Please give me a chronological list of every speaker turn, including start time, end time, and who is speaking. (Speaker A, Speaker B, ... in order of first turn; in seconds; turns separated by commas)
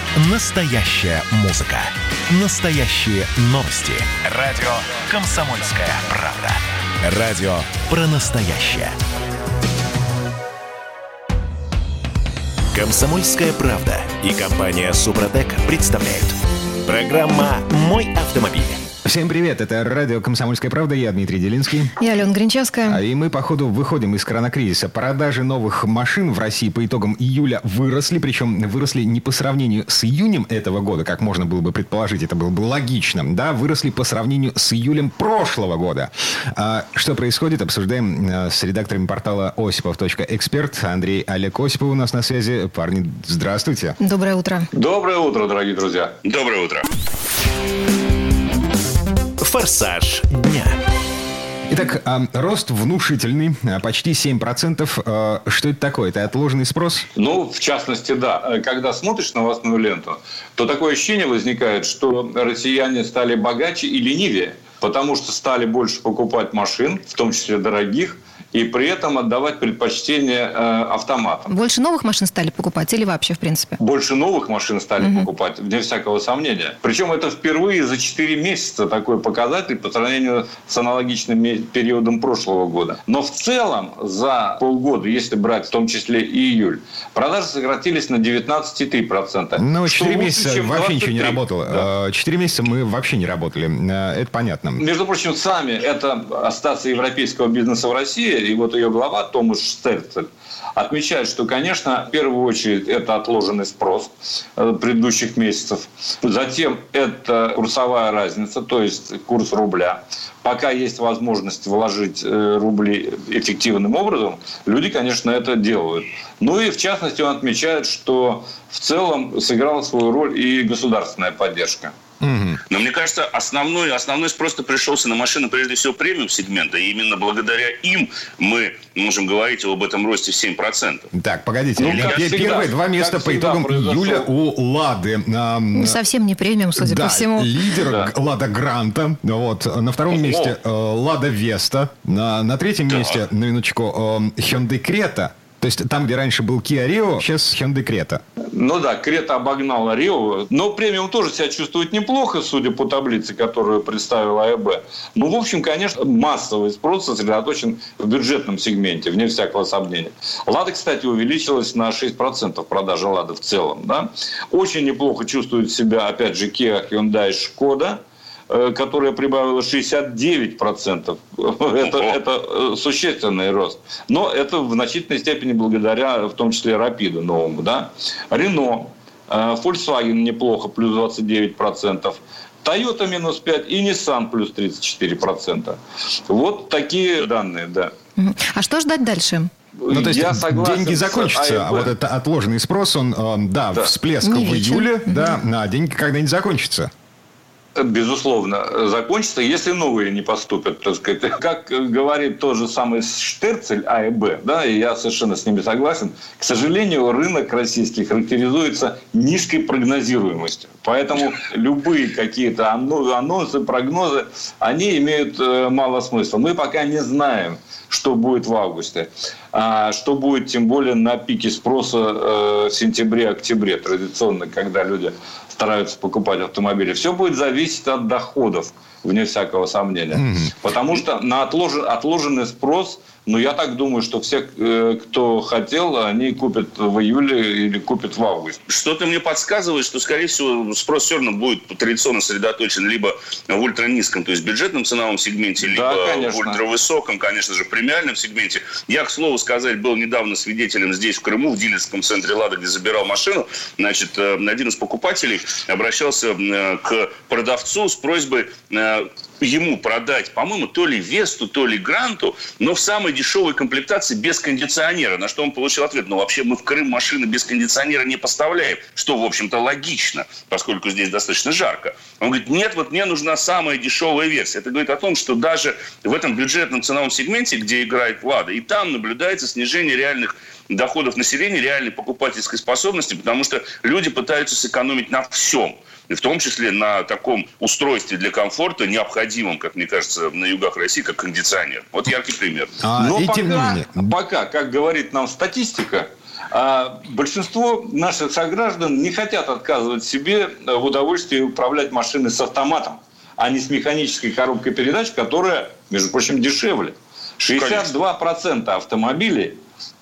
Speaker A: 0.2-9.0, Speaker A: 12.7-18.8, Speaker B: 19.0-21.9, Speaker C: 22.0-23.0, Speaker B: 22.9-44.0, Speaker C: 44.0-44.7, Speaker D: 44.7-46.1, Speaker E: 46.2-46.9, Speaker A: 49.4-50.8, Speaker B: 51.7-57.0, Speaker D: 57.1-71.4, Speaker C: 71.5-73.8, Speaker D: 73.8-91.8, Speaker C: 75.0-75.3, Speaker B: 89.6-94.8, Speaker D: 94.8-121.9, Speaker B: 122.2-122.6, Speaker E: 122.7-131.1, Speaker B: 131.1-136.0, Speaker D: 131.8-134.3, Speaker E: 131.8-132.6, Speaker C: 135.7-137.5, Speaker B: 136.8-148.2, Speaker D: 137.8-138.1, Speaker E: 140.1-140.6, Speaker E: 142.9-143.2, Speaker D: 148.5-187.9, Speaker E: 171.8-172.2, Speaker C: 188.2-189.5, Speaker D: 189.8-191.9, Speaker B: 189.9-196.9, Speaker C: 194.2-195.4, Speaker D: 197.8-238.6, Speaker B: 230.1-230.6, Speaker E: 238.7-292.8, Speaker D: 245.6-246.6, Speaker B: 292.8-294.1, Speaker D: 292.9-309.6, Speaker E: 307.5-307.9